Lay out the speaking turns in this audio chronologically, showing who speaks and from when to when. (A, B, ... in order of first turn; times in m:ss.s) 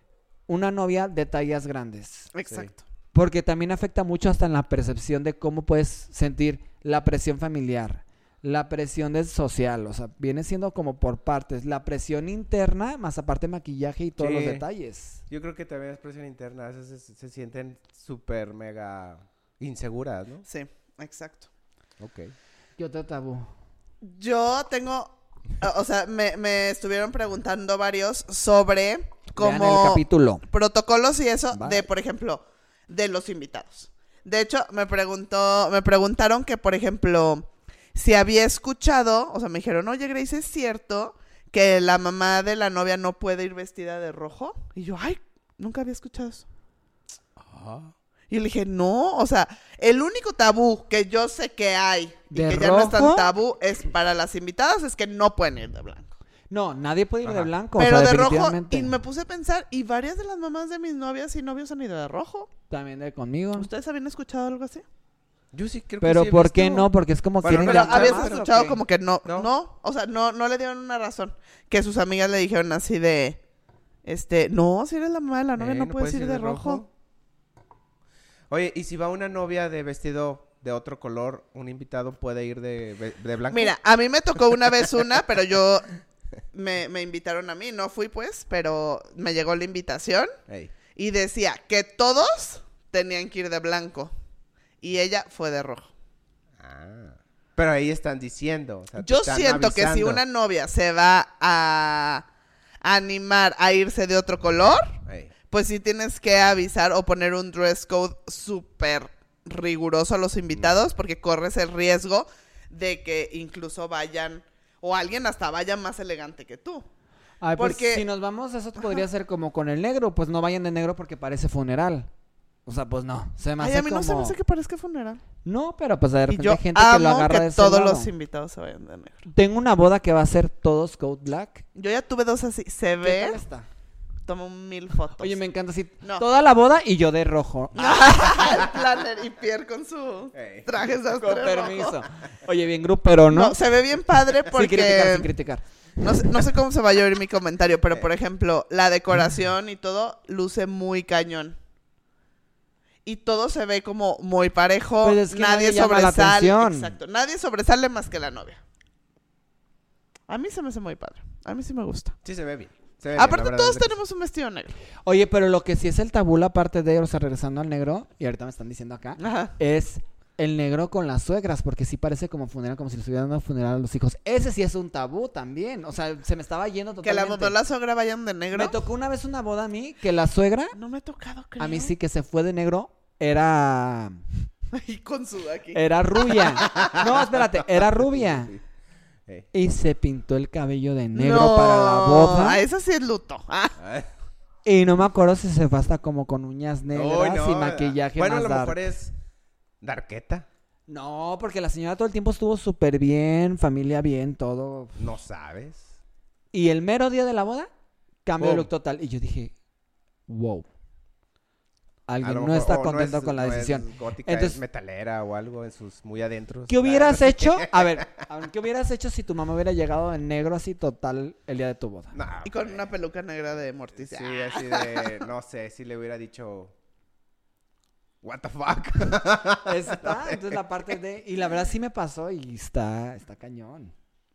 0:00.5-0:02.3 A
0:02.3-0:02.8 B
0:02.5-0:02.7 C
0:03.1-0:15.2 A
0:14.2-0:14.6 C
0:15.3-0:20.4 C
0:20.4-0:21.5 B
0:22.0-0:22.3 C
0:22.8-0:23.5 A
0:24.0-0:46.4 B
0:29.4-0:30.4 A
0:31.5-0:31.9 A
0:47.4-0:47.9 C
0:48.3-0:56.1 B
0:52.3-0:53.3 A
0:56.5-0:58.9 A
0:57.2-0:57.5 C
0:57.8-1:02.5 B
1:02.7-1:03.7 A
1:03.6-1:04.8 B
1:05.5-1:06.9 C
1:06.0-1:08.8 A
1:07.4-1:08.4 C
1:07.4-1:13.4 B
1:14.0-1:16.8 B
1:15.6-1:16.9 C
1:18.5-1:23.7 C
1:23.5-1:25.9 B
1:26.5-1:30.3 B
1:30.5-1:30.7 C
1:31.0-1:34.1 B
1:34.8-1:35.9 B
1:36.6-1:40.2 C
1:39.0-1:42.2 B
1:42.8-1:45.0 B
1:45.0-1:45.3 C
1:45.5-1:56.9 B
1:57.4-2:02.1 A
1:57.6-1:58.0 B
2:02.6-2:04.4 A
2:03.6-2:05.2 B
2:05.4-2:08.1 A
2:06.3-2:09.3 B
2:09.3-2:11.6 A
2:11.7-2:13.4 B
2:13.0-2:13.7 A
2:14.2-2:15.4 B
2:15.2-2:18.4 A
2:17.7-2:22.0 B
2:20.3-2:20.7 C
2:21.2-2:23.6 A
2:23.3-2:25.3 B
2:24.5-2:25.6 A
2:26.0-2:31.6 B
2:33.0-2:38.6 B
2:35.0-2:36.9 A
2:40.3-2:42.2 B
2:42.2-2:44.0 C
2:43.2-2:44.7 B
2:45.0-2:57.6 A
2:49.2-2:49.5 B
2:57.0-2:58.8 B
2:58.5-3:00.8 A
3:00.7-3:01.9 B
3:01.6-3:04.2 A
3:04.7-3:06.8 B
3:05.7-3:08.5 A
3:06.6-3:08.6 C
3:09.5-3:12.6 A
3:11.1-3:13.8 B
3:13.8-3:14.1 C
3:14.6-3:18.8 A
3:16.9-3:19.1 C
3:19.8-3:20.5 C
3:20.9-3:25.0 A
3:25.0-3:25.9 C
3:26.5-3:27.7 A
3:28.2-3:29.5 A
3:28.4-3:28.7 C
3:30.3-3:30.6 A
3:32.1-3:34.6 A
3:32.2-3:38.1 C
3:36.7-3:42.1 A
3:42.1-3:42.9 C
3:42.4-3:45.2 B
3:44.0-3:46.7 C
3:48.2-3:50.6 C
3:49.6-3:53.9 A